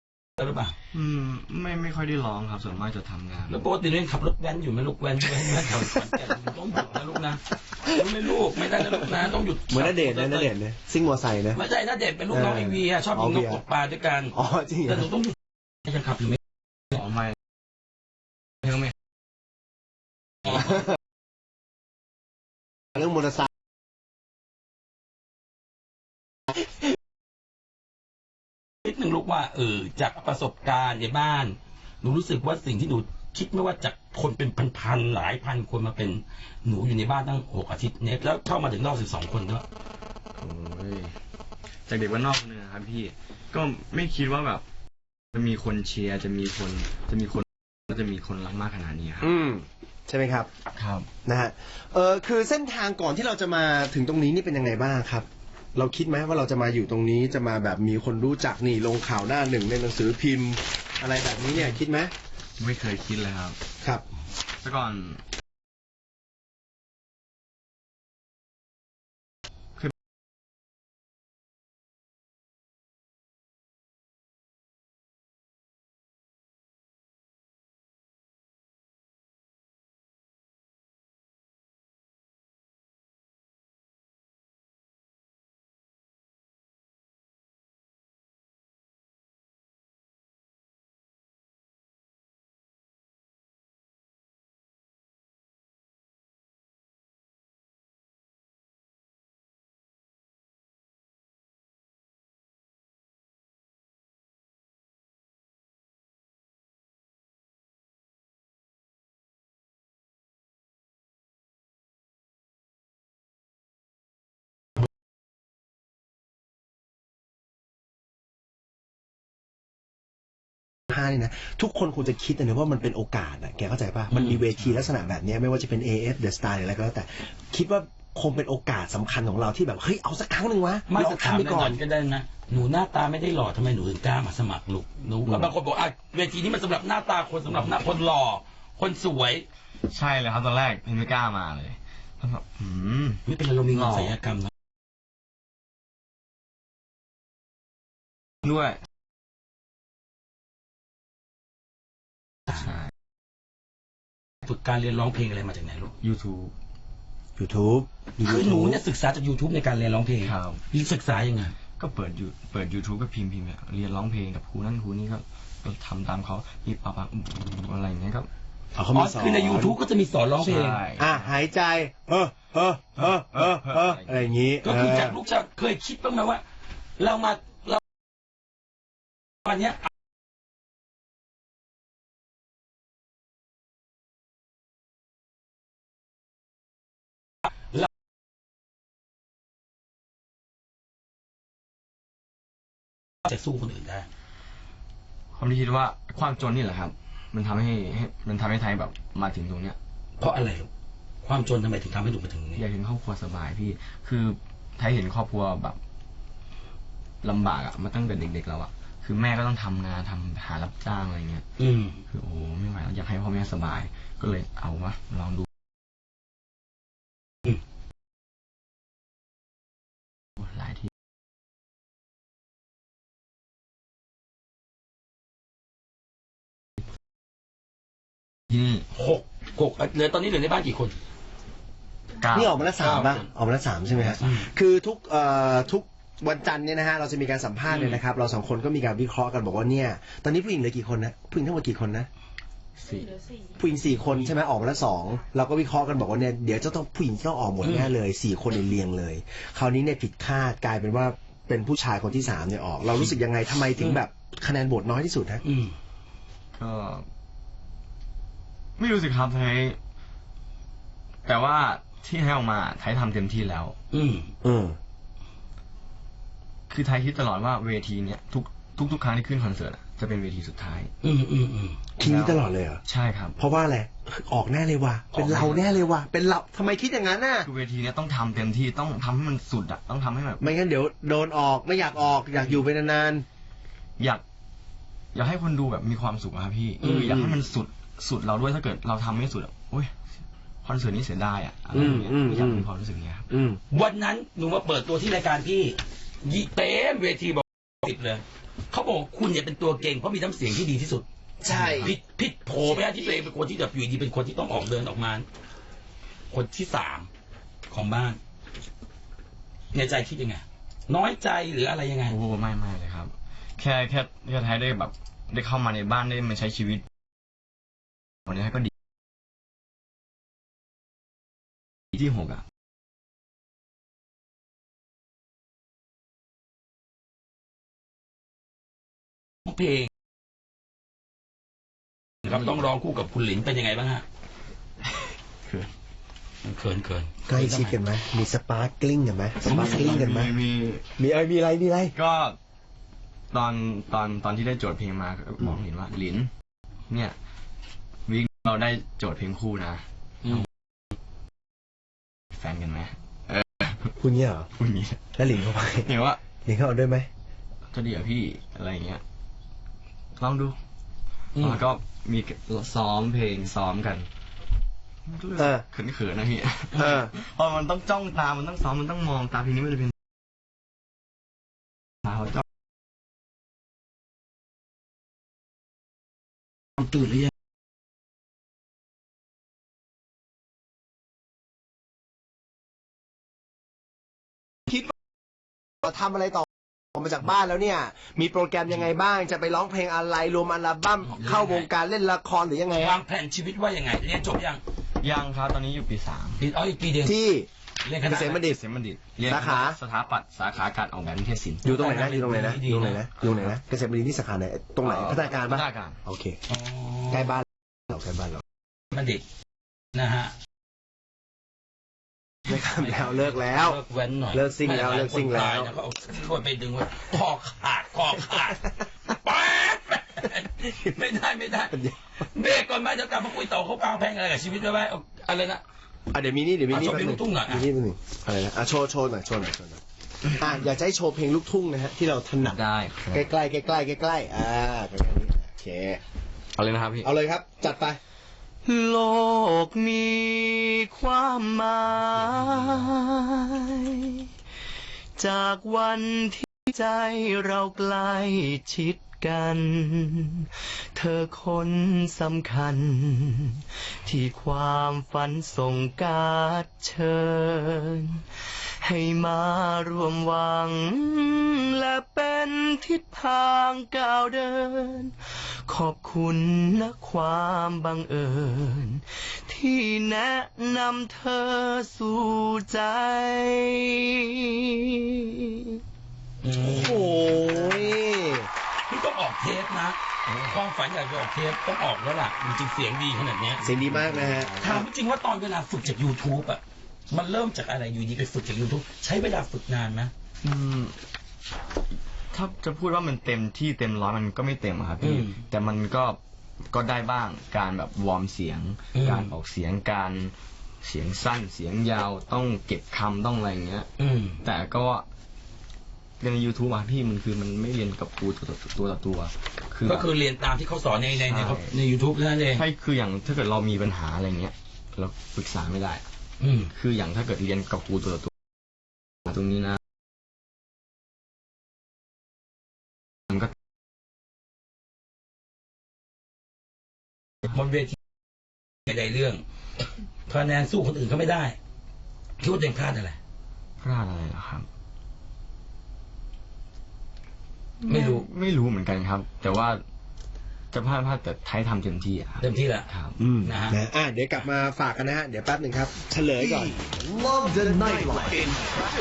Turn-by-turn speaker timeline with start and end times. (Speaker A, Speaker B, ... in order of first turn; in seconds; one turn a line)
Speaker A: 0.4-0.7
Speaker B: 0.9-3.6
Speaker A: 3.5-10.5
Speaker C: 9.7-11.6
Speaker A: 11.5-14.4
Speaker C: 12.3-13.6
Speaker C: 14.3-15.1
Speaker A: 14.9-16.4
Speaker B: 16.9-17.3
Speaker B: 18.6-18.9
Speaker C: 22.9-23.5
Speaker A: 28.8-39.6
Speaker B: 40.4-41.1
Speaker B: 41.9-44.6
Speaker B: 45.3-49.3
Speaker C: 49.2-50.5
Speaker B: 50.7-51.1
Speaker C: 51.2-62.1
Speaker B: 62.6-63.6
Speaker B: 64.6-65.2
Speaker C: 120.9-131.8
Speaker A: 124.1-124.5
Speaker A: 130.9-139.4
Speaker B: 135.2-135.5
Speaker B: 139.9-144.1
Speaker A: 143.3-144.5
Speaker B: 148.4-148.8
Speaker B: 152.5-152.9
Speaker A: 154.4-155.9
Speaker B: 156.0-156.5
Speaker C: 157.4-158.8
Speaker A: 158.2-161.5
Speaker B: 160.2-160.6
Speaker B: 161.8-168.3
Speaker C: 168.7-169.7
Speaker A: 168.9-170.8
Speaker B: 170.4-171.3
Speaker C: 170.9-175.2
Speaker B: 173.0-174.1
Speaker A: 174.6-176.4
Speaker A: 177.0-177.8
Speaker A: 179.4-179.9
Speaker A: 193.2-194.1
Speaker B: 195.3-199.8
Speaker A: 200.2-200.7
Speaker A: 201.2-202.6
Speaker B: 202.6-205.8
Speaker B: 207.2-211.4
Speaker A: 211.6-212.0
Speaker B: 212.1-215.5
Speaker B: 220.4-220.9
Speaker B: 228.5-228.8
Speaker A: 228.9-231.0
Speaker B: 232.2-232.7
Speaker C: 232.3-242.1
Speaker A: 232.8-233.2
Speaker A: 234.0-234.5
Speaker A: 237.7-238.0
Speaker B: 242.8-243.2
Speaker C: 243.6-255.4
Speaker A: 247.6-247.9
Speaker A: 255.4-255.7
Speaker B: 256.5-257.0
Speaker B: 258.8-259.8
Speaker B: 261.2-263.8
Speaker A: 263.9-264.3
Speaker C: 264.4-264.8
Speaker B: 266.7-270.9
Speaker A: 271.0-271.8
Speaker C: 272.0-272.8
Speaker B: 272.0-273.4
Speaker C: 273.4-277.5
Speaker A: 275.2-275.5
Speaker B: 275.2-275.6
Speaker B: 277.4-280.4
Speaker C: 280.4-283.2
Speaker B: 285.1-289.9
Speaker A: 286.8-287.1
Speaker C: 287.0-287.4
Speaker B: 290.6-293.3
Speaker C: 291.7-292.7
Speaker C: 293.3-293.6
Speaker A: 293.7-305.2
Speaker C: 301.4-301.9
Speaker B: 301.5-301.9
Speaker A: 306.3-307.1
Speaker A: 307.7-308.2
Speaker A: 309.7-312.1
Speaker B: 312.1-316.8
Speaker B: 318.3-318.7
Speaker B: 321.9-322.4
Speaker A: 329.4-329.9
Speaker A: 332.2-334.0
Speaker B: 332.3-332.5
Speaker B: 334.9-335.7
Speaker A: 336.4-337.8
Speaker C: 337.3-340.3
Speaker B: 339.4-340.9
Speaker A: 339.5-340.0
Speaker C: 341.0-341.9
Speaker B: 341.9-342.4
Speaker B: 343.3-346.3
Speaker B: 346.9-347.1
Speaker B: 348.1-350.4
Speaker B: 352.3-353.9
Speaker C: 354.0-354.5
Speaker B: 354.6-355.2
Speaker C: 355.1-355.9
Speaker B: 355.8-356.2
Speaker C: 356.4-357.1
Speaker B: 357.7-359.0
Speaker B: 360.2-360.6
Speaker A: 361.4-361.6
Speaker B: 361.4-364.1
Speaker B: 365.1-369.9
Speaker C: 365.4-365.6
Speaker C: 366.8-367.1
Speaker B: 372.1-372.4
Speaker C: 385.8-393.0
Speaker A: 391.1-391.7
Speaker A: 392.8-394.6
Speaker B: 395.0-396.4
Speaker A: 396.4-397.2
Speaker C: 397.0-397.5
Speaker A: 397.8-398.4
Speaker C: 398.0-398.6
Speaker B: 398.4-401.6
Speaker C: 399.2-399.8
Speaker A: 401.6-403.0
Speaker C: 401.6-406.4
Speaker B: 403.2-403.5
Speaker B: 404.8-406.0
Speaker A: 406.5-407.4
Speaker C: 407.1-408.4
Speaker A: 408.9-409.2
Speaker A: 409.9-410.3
Speaker C: 412.5-413.8
Speaker A: 412.5-425.6
Speaker C: 414.3-415.7
Speaker C: 421.7-422.0
Speaker C: 426.1-432.6
Speaker A: 426.7-427.7
Speaker B: 432.4-433.2
Speaker C: 433.1-436.0
Speaker B: 436.5-437.1
Speaker C: 437.0-438.0
Speaker D: 438.6-444.3
Speaker D: 445.2-458.2
Speaker D: 458.8-475.7
Speaker A: 476.4-478.0
Speaker C: 476.6-478.5
Speaker A: 478.9-483.8
Speaker C: 483.6-484.8
Speaker B: 483.9-484.8
Speaker A: 484.6-490.1
Speaker B: 490.4-490.9
Speaker B: 492.3-496.2
Speaker A: 495.0-495.4
Speaker B: 496.7-503.9
Speaker A: 498.9-499.3
Speaker A: 504.0-504.4
Speaker B: 504.4-505.1
Speaker B: 506.2-510.1
Speaker A: 509.8-512.6
Speaker B: 511.2-511.7
Speaker B: 512.5-516.0
Speaker A: 516.4-516.7
Speaker B: 516.7-518.3
Speaker B: 519.3-519.8
Speaker A: 527.5-528.0
Speaker A: 528.9-529.4
Speaker A: 530.3-531.6
Speaker A: 532.4-533.2
Speaker B: 533.8-534.7
Speaker B: 537.9-539.8
Speaker A: 537.9-538.3
Speaker B: 540.7-543.1
Speaker A: 542.4-542.9
Speaker C: 543.2-546.8
Speaker A: 543.4-543.8
Speaker E: 546.4-548.6